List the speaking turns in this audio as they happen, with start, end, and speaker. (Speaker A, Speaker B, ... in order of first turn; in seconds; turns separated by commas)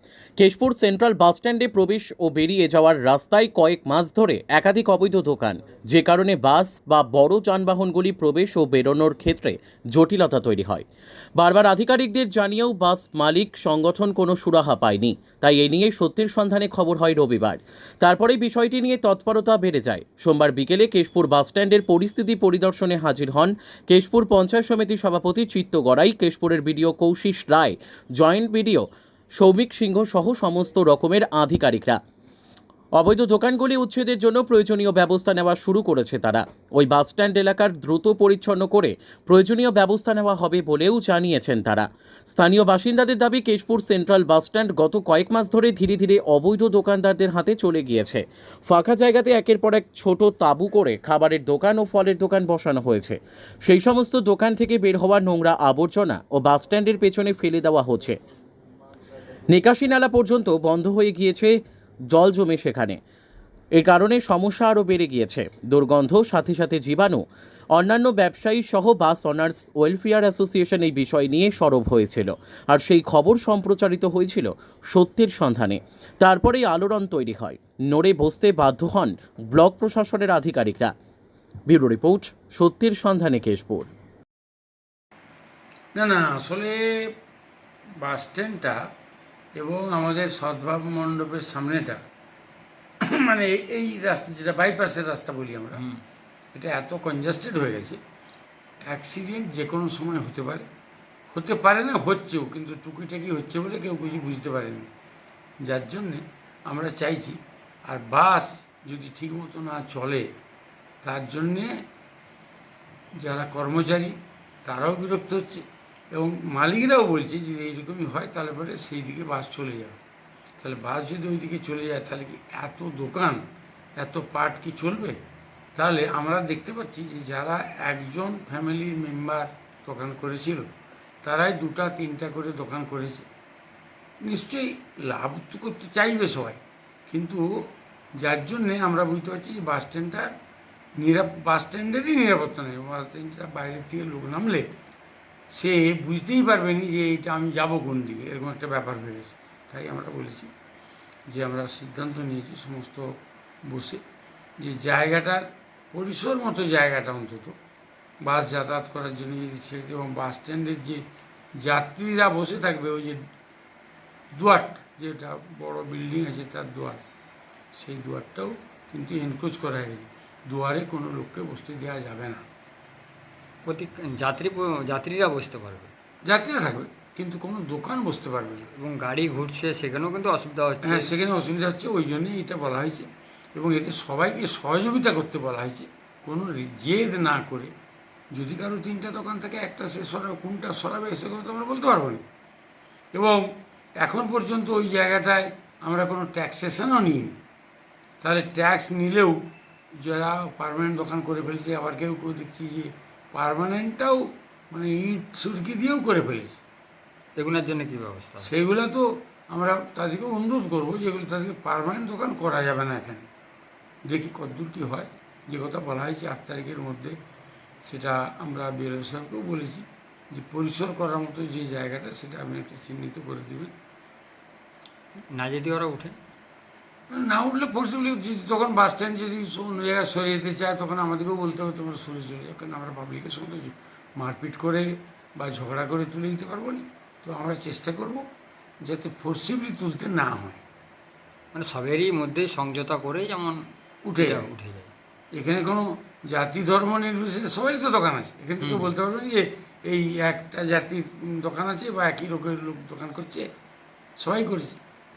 Speaker A: 0.4-10.9, Speaker A: 11.4-28.9, Speaker A: 29.4-32.0, Speaker A: 33.0-58.2, Speaker A: 59.5-61.5, Speaker A: 62.1-63.0, Speaker A: 63.8-80.9, Speaker A: 81.7-83.9, Speaker B: 86.0-87.1, Speaker B: 88.0-88.8, Speaker B: 89.6-92.0, Speaker B: 93.0-95.9, Speaker B: 96.5-98.0, Speaker B: 98.9-100.7, Speaker B: 101.3-104.9, Speaker B: 105.6-110.3, Speaker B: 111.0-111.7, Speaker B: 113.2-120.0, Speaker B: 120.6-123.4, Speaker B: 124.0-125.2, Speaker B: 125.8-130.7, Speaker B: 131.2-133.3, Speaker B: 134.2-137.4, Speaker B: 138.2-140.3, Speaker B: 141.0-144.7, Speaker B: 145.5-150.5, Speaker B: 151.3-153.1, Speaker B: 153.7-154.0, Speaker B: 154.6-157.6, Speaker B: 158.2-161.1, Speaker B: 161.6-163.2, Speaker B: 164.3-167.0, Speaker B: 167.7-172.4, Speaker C: 173.6-175.9, Speaker B: 176.2-178.7, Speaker C: 178.7-181.1, Speaker B: 180.8-187.7, Speaker B: 188.3-192.2, Speaker B: 193.1-193.4, Speaker B: 194.0-197.4, Speaker B: 198.2-199.4, Speaker B: 200.0-204.2, Speaker B: 204.7-206.6, Speaker C: 207.4-208.5, Speaker B: 208.4-213.3, Speaker B: 214.1-217.2, Speaker B: 217.8-223.7, Speaker C: 225.3-226.2, Speaker B: 227.1-238.2, Speaker B: 238.8-240.6, Speaker C: 241.5-243.6, Speaker B: 244.1-244.5, Speaker C: 244.2-244.9, Speaker B: 245.3-253.4, Speaker C: 248.6-248.9, Speaker B: 254.2-254.8